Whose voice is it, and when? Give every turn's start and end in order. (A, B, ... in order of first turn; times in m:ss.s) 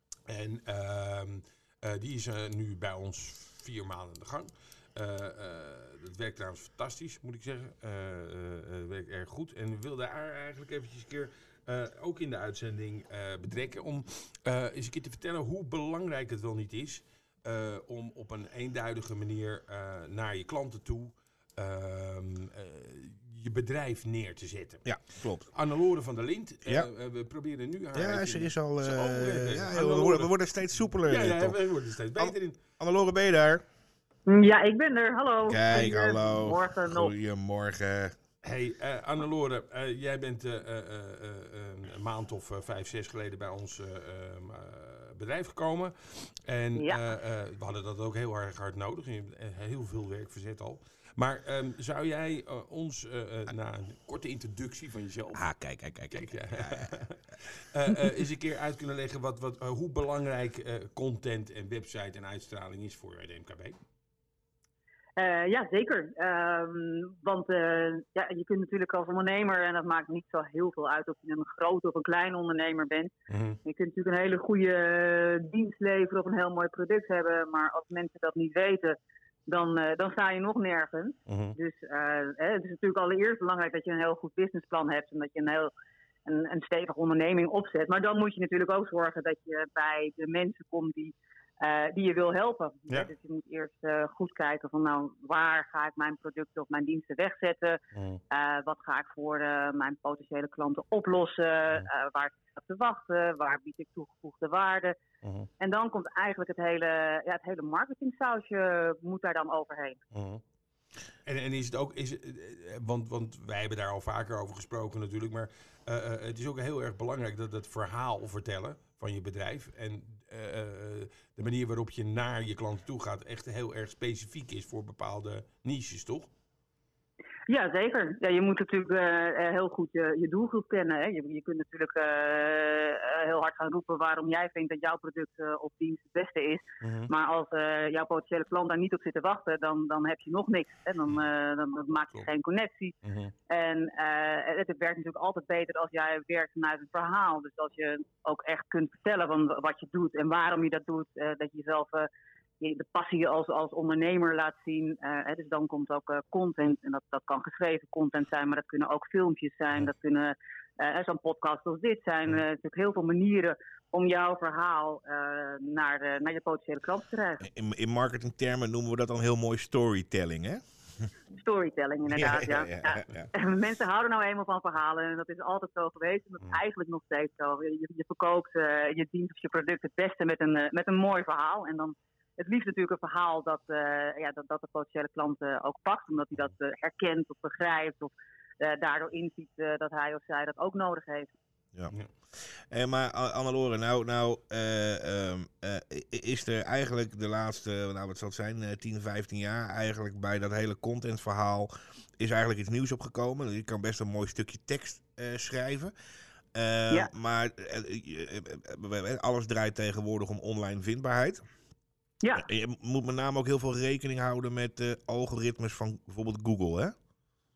0:00.3-0:24.9 A
0:24.8-0:25.5 B
0:25.5-0:30.3 A
0:27.9-0:31.6 B
0:31.0-0:32.6 A
0:32.2-0:33.6 B
0:34.3-0:37.1 C
0:35.4-0:38.2 B
0:38.4-0:55.4 A
0:55.3-0:57.0 B
0:56.1-1:03.8 A
1:05.2-1:13.1 C
1:13.3-1:13.6 A
1:13.6-1:25.7 C
1:21.3-1:21.6 A
1:26.2-1:45.0 C
1:37.9-1:38.2 A
1:45.2-1:45.5 A
1:45.6-1:50.0 C
1:50.1-1:50.4 A
1:51.2-2:06.3 A
2:07.5-2:23.0 C
2:16.8-2:17.1 A
2:23.0-2:23.3 A
2:23.5-2:32.1 C
2:32.6-2:47.4 C
2:47.4-2:51.1 B
2:51.4-3:11.3 C
2:52.1-2:53.3 B
3:11.8-3:25.9 B
3:26.5-3:31.4 B
3:32.4-3:37.0 B